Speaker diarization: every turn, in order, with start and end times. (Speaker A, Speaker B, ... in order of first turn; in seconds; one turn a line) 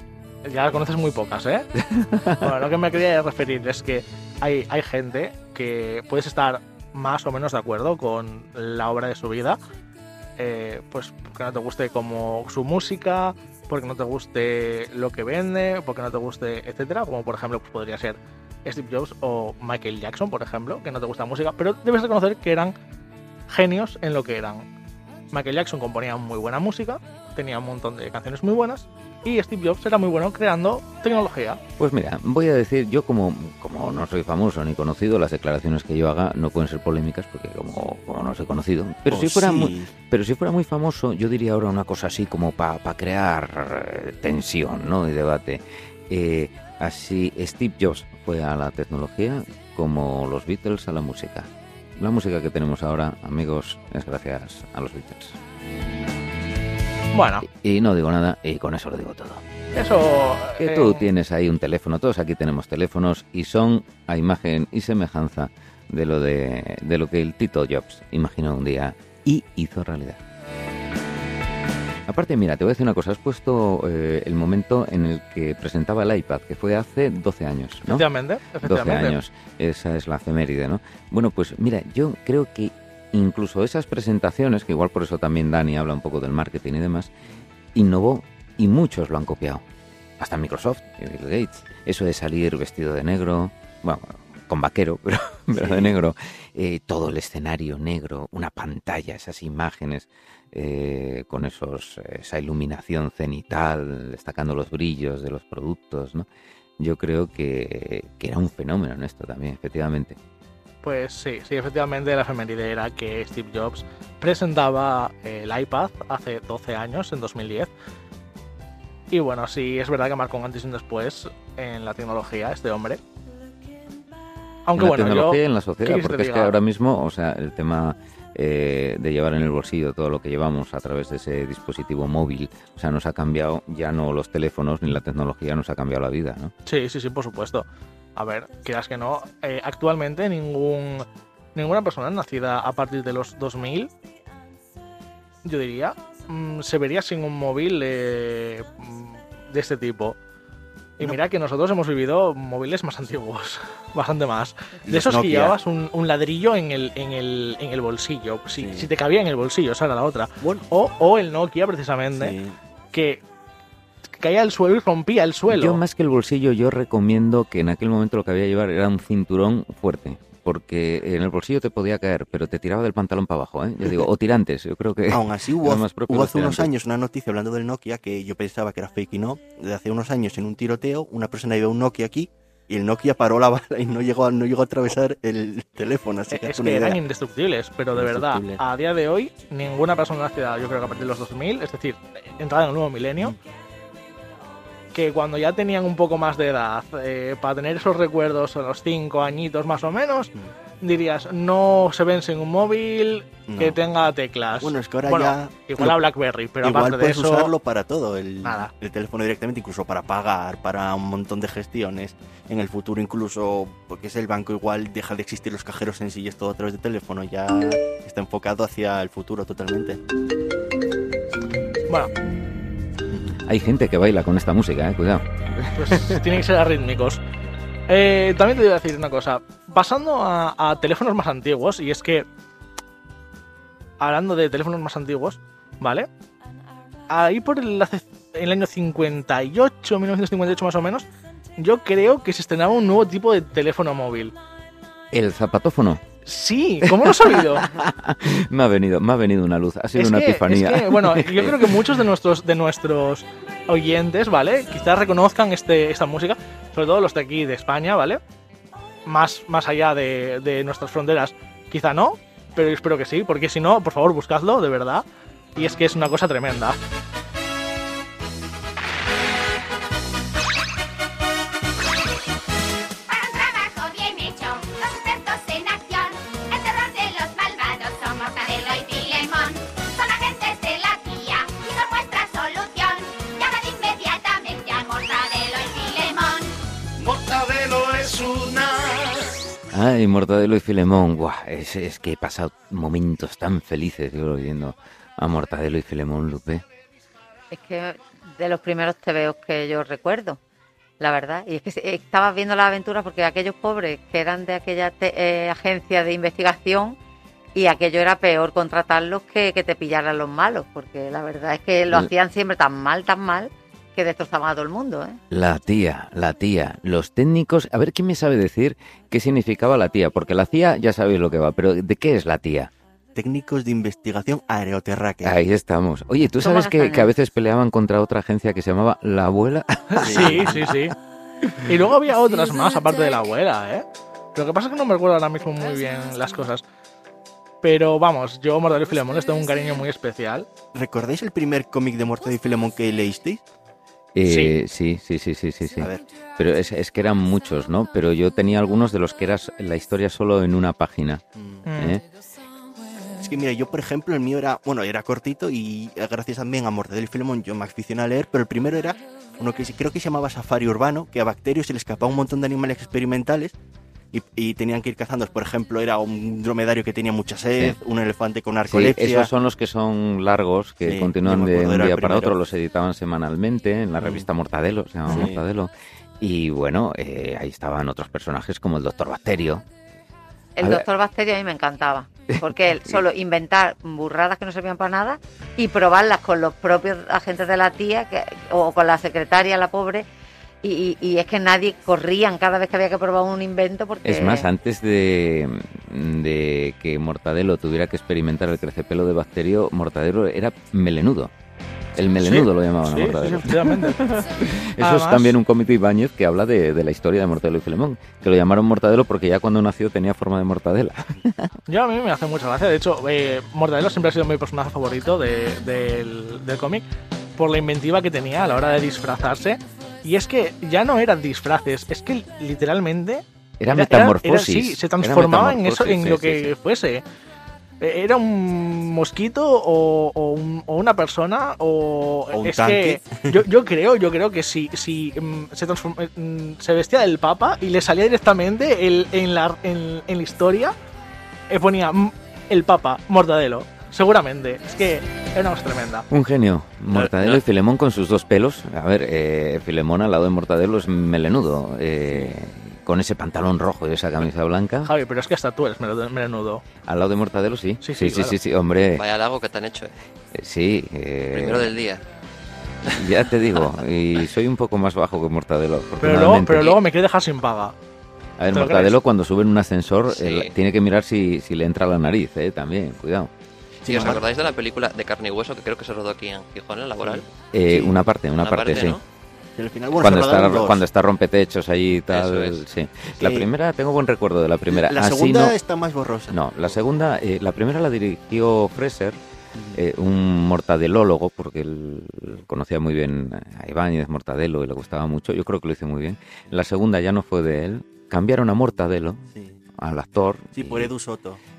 Speaker A: 0.4-1.7
Speaker B: 1.8-2.5
Speaker A: 2.4-9.6
Speaker A: 10.4-22.7
Speaker A: 23.5-24.7
Speaker A: 25.3-31.6
Speaker B: 31.8-55.4
Speaker C: 39.1-39.9
Speaker A: 57.1-57.5
Speaker B: 57.4-59.4
Speaker A: 59.7-61.1
Speaker B: 60.6-70.2
Speaker B: 72.1-78.0
Speaker A: 77.9-79.2
Speaker B: 78.6-87.1
Speaker B: 87.7-89.6
Speaker B: 90.2-106.3
Speaker C: 95.6-95.9
Speaker B: 106.8-110.2
Speaker A: 110.8-117.7
Speaker A: 119.1-123.0
Speaker A: 124.7-126.6
Speaker B: 124.8-136.5
Speaker A: 136.7-143.9
Speaker A: 145.4-150.2
Speaker A: 151.0-162.4
Speaker C: 154.9-155.6
Speaker C: 158.6-158.9
Speaker C: 162.2-162.5
Speaker A: 162.9-163.2
Speaker A: 164.2-165.8
Speaker B: 165.5-176.7
Speaker C: 175.1-187.0
Speaker A: 186.3-193.3
Speaker C: 187.9-188.6
Speaker A: 194.9-207.5
Speaker C: 203.5-203.8
Speaker C: 204.6-206.0
Speaker C: 206.6-220.0
Speaker A: 208.4-208.7
Speaker B: 223.4-226.2
Speaker A: 225.7-227.2
Speaker A: 227.9-232.2
Speaker A: 234.0-236.1
Speaker A: 237.1-241.1
Speaker A: 241.6-244.3
Speaker B: 245.1-246.0
Speaker A: 246.2-247.7
Speaker B: 246.8-251.9
Speaker A: 250.0-258.2
Speaker A: 259.1-265.0
Speaker A: 265.6-266.8
Speaker D: 273.1-286.5
Speaker E: 287.0-289.2
Speaker B: 289.7-296.6
Speaker F: 297.5-300.4
Speaker F: 301.0-307.0
Speaker F: 307.5-315.2
Speaker B: 315.3-322.7
Speaker C: 323.1-325.4
Speaker B: 325.2-330.7
Speaker F: 326.4-327.1
Speaker A: 329.9-330.9
Speaker C: 330.0-330.6
Speaker A: 331.6-336.6
Speaker A: 337.6-340.5
Speaker C: 340.7-343.4
Speaker B: 344.1-351.2
Speaker A: 344.2-344.6
Speaker C: 351.4-351.6
Speaker A: 351.6-352.0
Speaker B: 351.8-352.0
Speaker C: 353.2-363.6
Speaker C: 364.1-369.3
Speaker B: 368.7-379.6
Speaker C: 370.9-372.3
Speaker C: 375.1-375.4
Speaker F: 380.6-390.1
Speaker B: 380.6-380.8
Speaker B: 382.3-383.0
Speaker F: 390.6-394.5
Speaker B: 394.0-401.3
Speaker B: 401.9-411.5
Speaker A: 402.2-404.1
Speaker A: 404.8-405.4
Speaker A: 411.7-416.8
Speaker A: 417.4-427.0
Speaker B: 423.6-426.5
Speaker A: 427.8-440.7
Speaker C: 432.3-433.4
Speaker A: 441.5-446.1
Speaker B: 446.1-454.9
Speaker G: 446.9-447.4
Speaker A: 454.8-456.6
Speaker B: 456.8-459.0
Speaker A: 457.8-458.4
Speaker G: 458.9-459.9
Speaker B: 460.3-461.7
Speaker G: 461.3-462.0
Speaker B: 462.9-466.8
Speaker A: 466.0-467.7
Speaker B: 468.4-473.3
Speaker A: 468.5-468.9
Speaker G: 470.1-470.5
Speaker C: 473.8-474.2
Speaker G: 473.9-477.2
Speaker C: 477.0-477.9
Speaker B: 477.5-479.0
Speaker G: 478.4-479.0
Speaker C: 479.6-480.8
Speaker B: 480.0-485.5
Speaker G: 482.1-482.6
Speaker C: 483.2-483.5
Speaker C: 484.7-486.4
Speaker B: 486.3-489.2
Speaker C: 489.5-489.8
Speaker B: 489.7-499.2
Speaker B: 499.8-500.9
Speaker C: 500.5-501.4